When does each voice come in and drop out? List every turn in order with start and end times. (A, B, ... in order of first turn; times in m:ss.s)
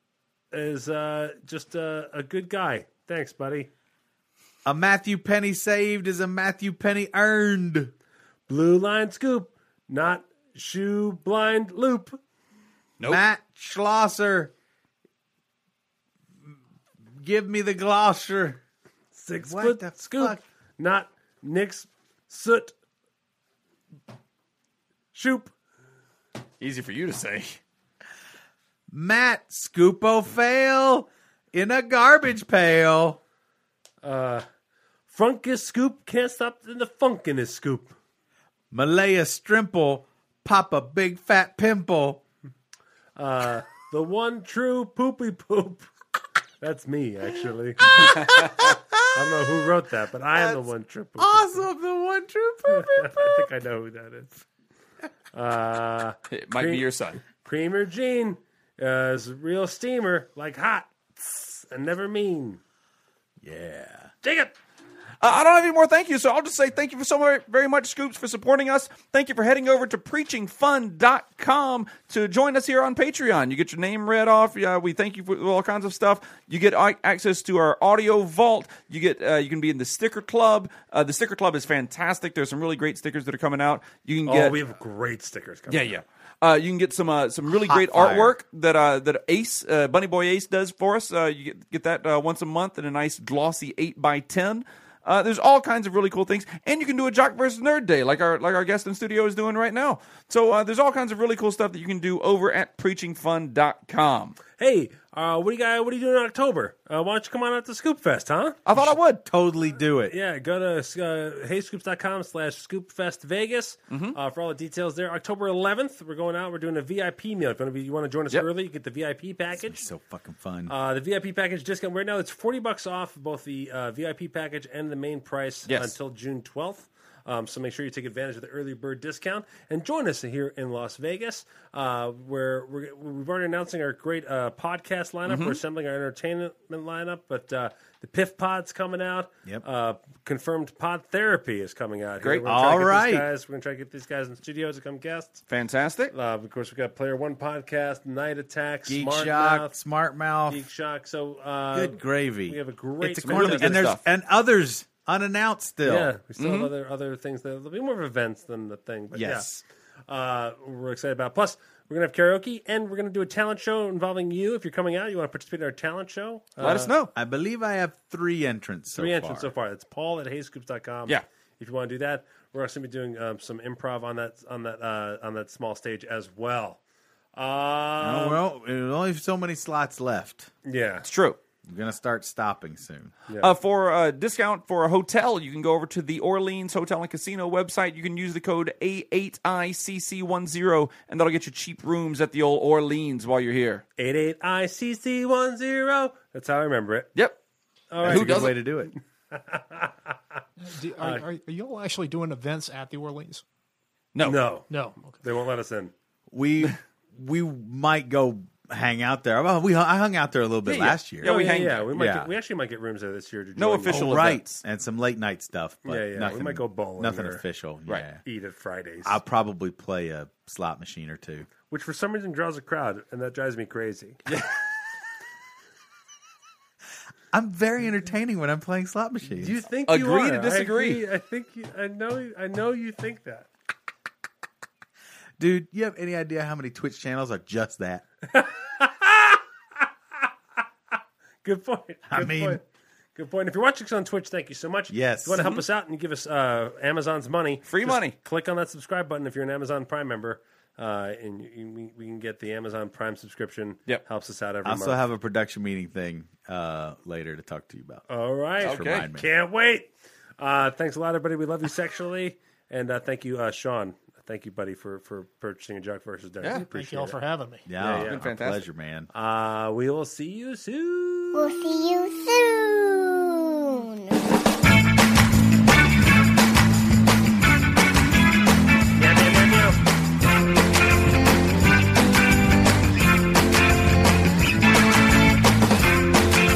0:00.5-0:03.7 A
0:04.6-0:07.9 B
0:08.5-0:12.2 A
0:13.0-0:14.5 B
0:17.2-0:18.6 B
0:19.1-0:22.7 A
0:19.4-0:20.4 B
0:25.1-0:25.5 A
0:26.6-0:27.6 C
0:28.9-0:33.2 B
0:34.0-0:34.4 A
0:35.1-0:37.9 A
0:38.7-0:42.2 B
0:43.2-0:45.9 A
0:46.6-0:51.6 A
0:47.9-0:49.1 B
0:50.3-0:53.5 B
0:52.7-0:54.4 A
0:55.3-1:02.6 A
0:56.3-0:57.2 C
1:03.4-1:04.1 B
1:04.2-1:04.5 A
1:05.2-1:24.6 C
1:24.2-1:26.0 A
1:25.7-1:44.4 C
1:27.6-1:28.4 B
1:44.6-1:48.7 A
1:48.6-1:49.2 C
1:48.8-1:50.1 B
1:50.1-1:59.8 A
1:53.9-1:54.2 C
1:59.6-2:00.7 B
2:00.7-2:25.4 A
2:05.7-2:06.0 C
2:15.3-2:15.6 C
2:22.2-2:22.5 C
2:22.4-2:23.2 B
2:25.5-2:26.1 C
2:26.1-2:29.7 A
2:28.9-2:30.6 B
2:30.5-2:33.9 A
2:31.7-2:36.1 B
2:33.2-2:34.0 C
2:35.8-2:39.5 A
2:36.4-2:36.7 C
2:39.1-2:39.6 B
2:40.1-2:46.9 A
2:46.6-2:47.1 C
2:47.1-2:49.5 B
2:48.9-2:56.8 A
2:57.3-2:58.4 A
2:58.0-3:00.5 B
3:00.6-3:01.1 A
3:01.0-3:01.4 C
3:01.6-3:03.1 B
3:03.3-3:03.5 A
3:03.4-3:13.8 C
3:14.0-3:17.1 A
3:17.9-3:19.9 A
3:18.0-3:18.9 B
3:18.0-3:18.6 C
3:20.6-3:23.4 D
3:24.1-3:24.4 C
3:24.2-3:25.9 A
3:24.7-3:25.2 D
3:26.3-3:31.4 B
3:30.6-3:31.9 C
3:31.2-3:34.4 A
3:31.9-3:32.3 B
3:33.6-3:34.6 C
3:33.8-3:38.2 B
3:35.8-3:37.4 A
3:38.2-3:39.2 A
3:39.0-3:41.5 B
3:41.7-3:44.2 A
3:44.3-3:44.5 C
3:47.3-3:49.6 B
3:49.3-3:53.5 A
3:49.9-3:51.0 C
3:55.4-3:58.0 B
3:58.3-3:59.4 A
4:01.4-4:02.6 A
4:02.1-4:02.6 B
4:03.1-4:15.0 A
4:04.9-4:05.6 B
4:07.7-4:08.1 C
4:14.6-4:18.0 B
4:18.1-4:27.2 A
4:18.6-4:19.3 B
4:18.6-4:19.1 C
4:26.7-4:27.6 D
4:27.6-4:29.1 B
4:27.8-4:28.3 A
4:28.0-4:28.6 C
4:29.1-4:31.5 A
4:31.3-4:34.2 E
4:38.9-4:39.8 A